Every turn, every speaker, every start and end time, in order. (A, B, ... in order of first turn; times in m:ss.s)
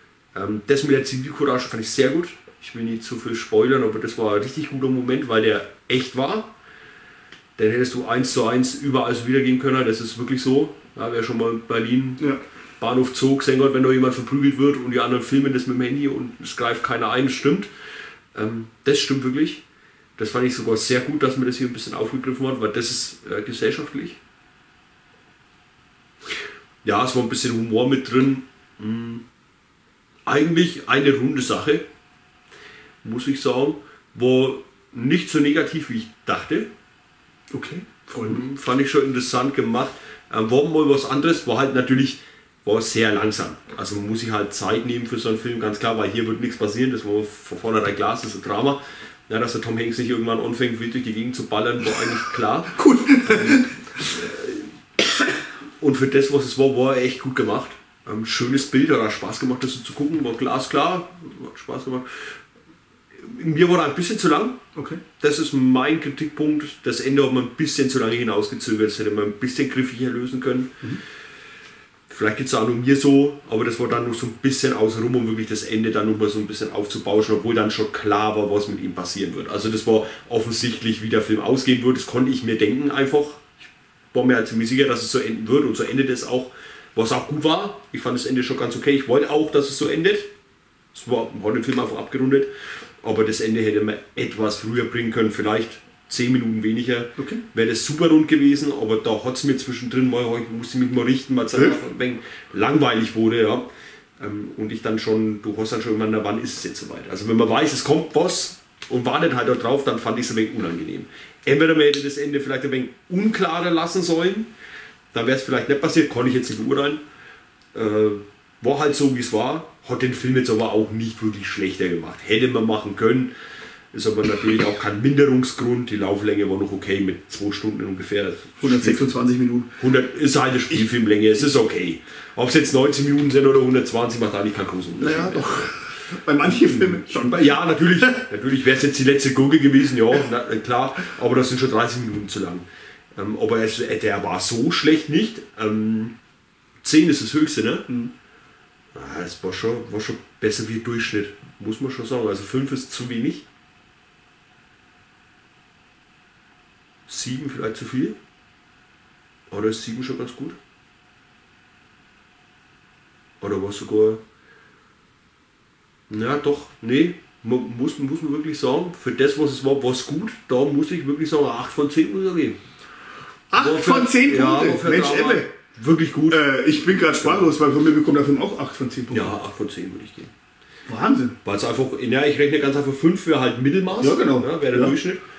0:00.3-0:06.5 A
0:07.6-0:17.7 A
0:18.3-0:19.6 A
0:20.2-0:24.2 A
0:26.8-0:29.2 A
0:30.3-0:31.8 A
0:33.0-0:36.7 A
0:37.5-0:38.4 B
0:38.2-0:54.7 A
0:52.7-0:53.8 B
0:55.8-1:02.3 A
1:03.2-1:04.6 A
1:04.8-1:05.0 B
1:05.2-1:10.7 A
1:12.1-1:23.6 A
1:24.1-1:30.3 A
1:30.9-1:32.5 A
1:33.0-1:43.7 A
1:44.2-1:54.5 A
1:55.1-1:57.0 A
1:57.8-2:03.3 A
2:03.9-2:09.2 A
2:08.6-2:09.7 B
2:09.8-2:15.7 A
2:15.0-2:18.2 B
2:16.5-2:22.6 A
2:23.2-2:26.2 A
2:26.8-2:27.9 A
2:29.0-2:33.4 A
2:37.1-2:38.2 A
2:39.5-2:40.6 A
2:43.4-2:44.2 A
2:46.1-2:52.6 A
2:53.5-2:55.5 B
2:53.6-2:56.4 A
2:56.3-2:59.3 B
2:57.0-2:57.5 A
2:59.1-3:00.3 A
3:00.9-3:01.4 B
3:01.4-3:05.2 A
3:04.0-3:04.9 B